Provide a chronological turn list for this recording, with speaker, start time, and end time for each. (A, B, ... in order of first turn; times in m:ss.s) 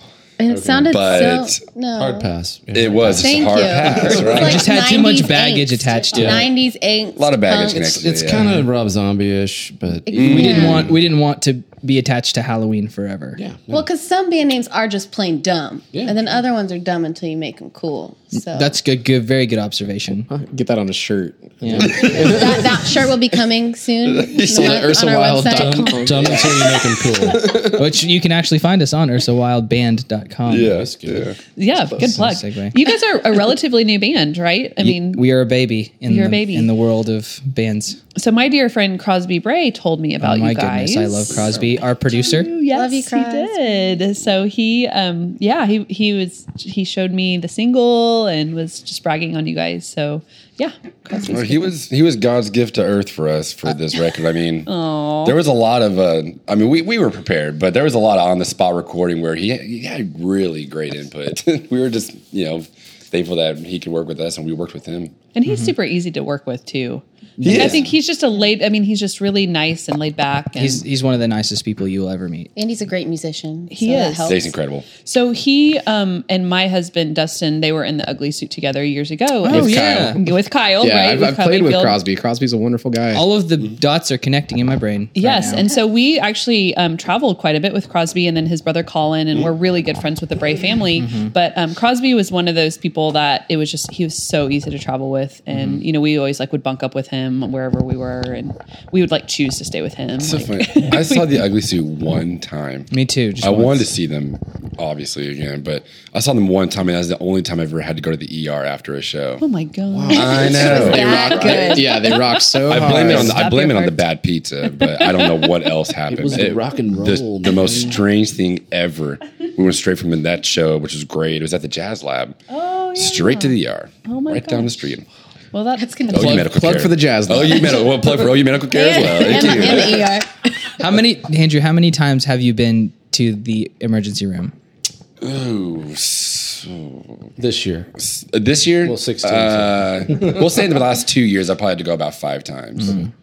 0:00.4-0:02.3 A
0:00.5-0:01.1 B
0:00.9-0:01.6 C
0:02.0-0:04.6 B
0:02.7-0:04.7 C
0:03.1-0:08.1 A
0:04.4-0:06.5 D
0:06.1-0:06.5 B
0:07.2-0:08.6 C
0:07.9-0:10.9 B
0:10.1-0:10.9 A
0:10.1-0:13.4 D
0:10.1-0:10.9 C
0:13.4-0:13.8 B
0:13.7-0:18.8 A
0:15.9-0:16.3 B
0:18.4-0:20.3 D
0:20.3-0:22.8 E
0:21.6-0:22.0 D
0:21.8-0:22.4 C
0:22.0-0:26.5 A
0:24.0-0:25.0 C
0:24.4-0:26.7 E
0:25.5-0:27.5 B
0:27.2-0:27.8 E
0:27.5-0:30.8 D
0:30.5-0:31.4 C
0:30.6-0:31.3 B
0:31.6-0:35.2 F
0:31.9-0:32.8 D
0:34.8-0:38.0 D
0:36.1-0:36.7 F
0:38.2-0:41.5 F
0:40.2-0:42.5 D
0:42.1-0:51.7 F
0:42.3-0:44.0 A
0:51.3-0:54.7 C
0:54.7-0:55.4 F
0:55.2-1:05.1 C
1:05.4-1:10.8 F
1:05.5-1:05.7 D
1:07.4-1:07.8 D
1:07.4-1:07.9 C
1:10.6-1:12.5 D
1:12.6-1:14.6 A
1:13.7-1:14.5 F
1:14.3-1:14.9 C
1:15.0-1:22.0 F
1:19.4-1:20.2 D
1:19.5-1:20.2 E
1:20.8-1:23.2 E
1:23.1-1:25.6 D
1:25.2-1:41.3 F
1:31.0-1:31.3 D
1:35.5-1:35.8 D
1:40.2-1:49.4 C
1:42.9-1:43.9 D
1:49.4-1:51.0 F
1:50.1-1:51.0 B
1:50.1-1:51.8 C
1:50.1-1:52.2 A
1:50.6-1:53.4 E
1:52.7-2:02.4 C
1:52.7-1:54.0 F
1:54.6-1:55.7 F
1:56.1-1:58.0 B
2:02.5-2:04.8 F
2:03.0-2:05.0 C
2:05.5-2:06.4 F
2:05.8-2:06.4 A
2:06.1-2:10.1 C
2:06.1-2:08.0 E
2:08.7-2:10.3 A
2:10.8-2:14.5 D
2:15.2-2:17.2 C
2:17.4-2:17.9 B
2:18.0-2:23.0 C
2:18.8-2:20.5 B
2:22.8-2:23.1 D